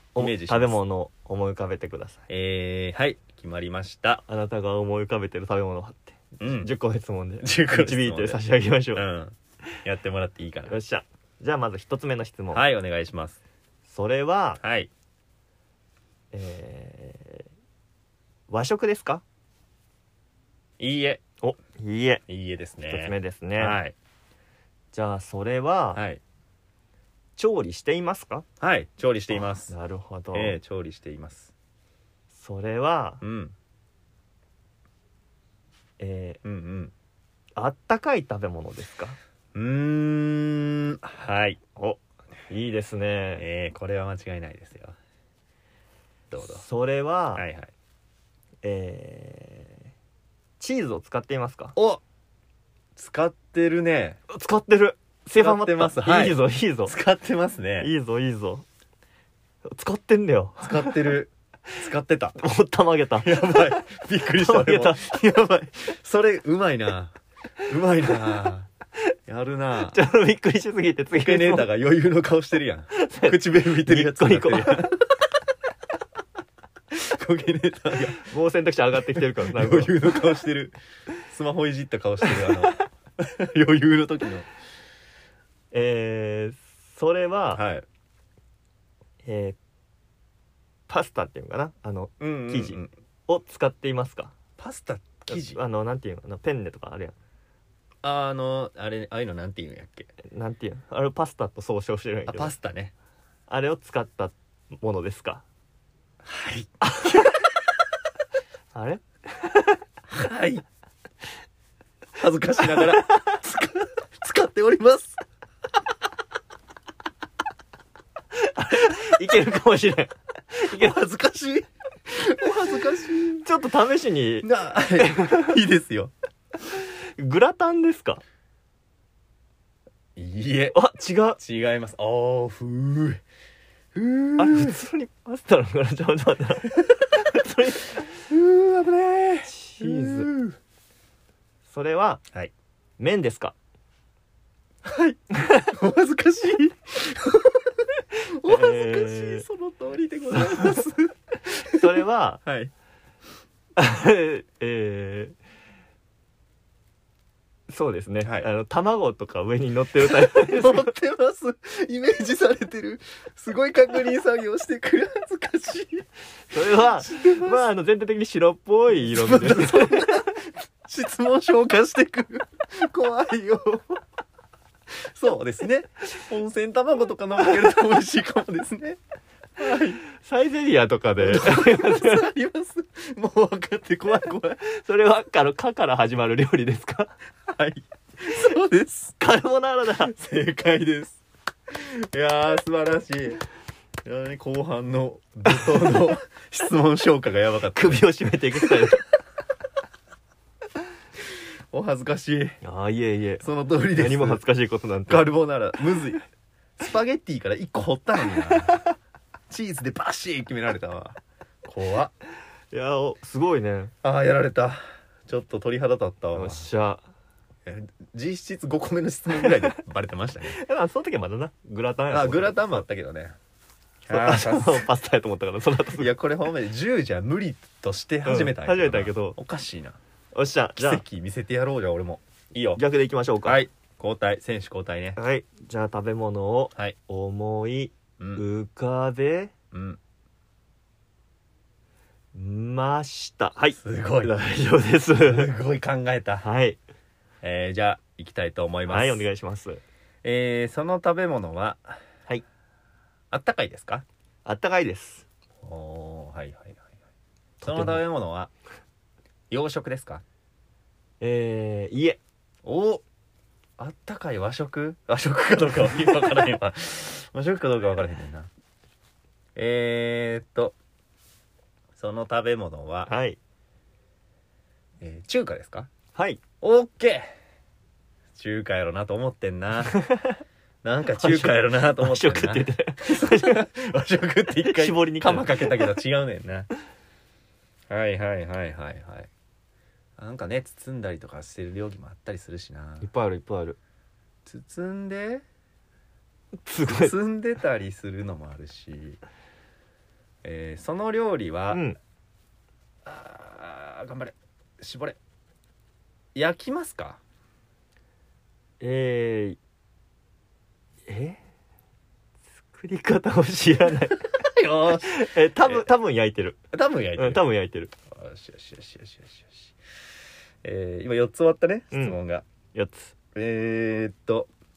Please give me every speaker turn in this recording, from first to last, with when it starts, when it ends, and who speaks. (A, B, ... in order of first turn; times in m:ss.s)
0:00.2-0:02.2 A
0:00.2-0:00.8 B
0:02.3-0:04.2 B
0:04.3-0:09.0 A
0:06.4-0:06.7 B
0:07.4-0:08.4 B
0:08.9-0:10.8 B
0:10.7-0:12.6 A
0:12.5-0:13.4 B
0:13.8-0:14.6 A
0:14.6-0:14.9 B
0:16.3-0:17.4 A
0:18.5-0:19.2 A
0:20.8-0:21.2 B
0:21.4-0:22.2 A
0:22.3-0:23.9 B
0:22.9-0:23.8 A
0:24.9-0:26.0 A
0:25.9-0:26.2 B
0:27.4-0:28.4 A
0:28.6-0:29.7 B
0:29.3-0:30.6 A
0:30.3-0:31.5 B
0:32.3-0:33.2 A
0:33.2-0:33.5 B
0:36.0-0:36.4 A
0:36.4-0:36.9 B
0:37.6-0:39.2 A
0:39.5-0:41.6 B
0:41.8-0:43.4 A
0:43.4-0:45.0 B
0:46.3-0:46.6 B
0:46.5-0:47.4 A
0:47.4-0:47.7 B
0:48.6-0:49.8 A
0:50.6-0:51.8 A
0:51.8-0:52.0 B
0:53.0-0:54.2 B
0:54.3-0:57.0 A
0:55.4-0:57.9 B
0:57.8-0:58.6 A
0:59.7-1:01.1 A
1:00.6-1:02.4 B
1:02.4-1:03.7 A
1:03.2-1:08.7 B
1:04.2-1:05.0 A
1:09.3-1:10.0 B
1:09.9-1:11.7 A
1:11.2-1:15.0 B
1:12.9-1:14.9 A
1:16.9-1:18.2 B
1:18.2-1:20.3 A
1:19.1-1:20.8 B
1:21.3-1:24.5 B
1:25.7-1:27.6 A
1:27.5-1:27.8 B
1:29.2-1:29.6 A
1:30.9-1:34.3 A
1:32.2-1:32.9 B
1:34.6-1:35.6 B
1:35.3-1:37.2 A
1:38.0-1:40.1 B
1:40.3-1:42.5 A
1:42.3-1:42.9 B
1:43.5-1:45.4 A
1:46.2-1:47.2 B
1:46.8-1:47.2 A
1:48.7-1:49.7 A
1:50.1-1:50.6 B
1:52.2-1:55.2 B
1:58.4-2:01.0 A
2:00.6-2:03.4 B
2:03.4-2:05.6 A
2:04.4-2:06.1 B
2:06.7-2:08.2 A
2:10.2-2:10.8 B
2:10.7-2:11.4 A
2:11.4-2:13.2 B
2:14.0-2:14.8 B
2:14.4-2:18.0 A
2:18.3-2:20.6 B
2:19.5-2:20.3 A
2:21.7-2:22.2 A
2:23.0-2:23.5 A
2:24.8-2:32.7 B
2:28.5-2:29.4 A
2:30.3-2:30.8 A
2:31.6-2:32.4 A
2:33.8-2:35.4 A
2:37.7-2:40.9 A
2:38.2-2:38.5 B
2:40.0-2:46.1 B
2:46.5-2:50.1 A
2:46.8-2:47.7 B
2:49.0-2:54.0 B
2:54.9-2:59.0 B
2:59.6-3:00.0 B
3:00.1-3:02.3 A
3:01.2-3:04.6 B
3:04.6-3:07.1 A
3:07.5-3:09.2 B
3:09.2-3:10.1 A
3:10.0-3:13.4 B
3:14.0-3:19.0 B
3:17.7-3:19.0 A
3:21.7-3:22.6 B
3:22.6-3:23.4 A
3:23.4-3:24.4 B
3:24.0-3:25.3 A
3:25.1-3:26.2 B
3:26.8-3:28.8 B
3:29.5-3:32.1 B
3:32.7-3:33.9 A
3:34.0-3:36.7 B
3:36.3-3:37.0 A
3:37.7-3:40.6 B
3:39.4-3:39.7 A
3:40.5-3:42.8 A
3:42.1-3:43.3 B
3:44.0-3:44.8 B
3:44.1-3:46.2 A
3:45.9-3:50.0 B
3:48.2-3:49.4 A
3:50.3-3:51.0 A
3:50.8-3:52.8 B
3:52.8-3:53.6 A
3:53.4-3:55.2 B
3:55.2-3:59.5 A
3:58.2-3:58.4 B
3:59.7-4:00.0 B
4:02.3-4:05.5 A
4:03.8-4:04.4 B
4:05.2-4:06.4 B
4:06.4-4:06.8 A
4:07.4-4:09.3 B
4:08.9-4:09.8 A
4:10.2-4:12.0 B
4:13.3-4:14.0 B
4:14.4-4:15.2 A
4:15.6-4:16.8 B
4:17.6-4:18.0 A
4:17.6-4:18.5 B
4:19.5-4:20.2 B
4:21.2-4:22.2 A
4:22.6-4:23.0 B
4:23.8-4:28.5 B
4:29.6-4:30.8 B
4:32.0-4:33.1 B
4:33.1-4:33.4 A
4:35.0-4:35.9 B
4:36.1-4:36.4 A
4:36.6-4:37.3 B
4:38.4-4:40.0 B
4:40.0-4:40.4 A
4:40.8-4:46.7 B
4:41.2-4:43.6 A
4:44.6-4:46.0 A
4:47.9-4:49.3 B
4:50.2-4:53.1 B
4:53.0-4:53.8 A
4:54.5-4:55.4 B
4:56.6-4:57.1 A
4:56.8-4:59.2 B
5:00.4-5:01.8 B
5:01.7-5:02.0 A
5:03.0-5:05.2 B
5:06.4-5:07.2 B
5:08.8-5:09.6 A
5:11.1-5:11.4 A
5:12.7-5:16.6 A
5:14.3-5:15.9 B
5:16.7-5:17.5 B
5:17.2-5:17.9 A
5:18.1-5:19.7 B
5:20.6-5:22.4 B
5:21.9-5:22.2 A
5:22.7-5:23.1 A
5:23.3-5:24.5 B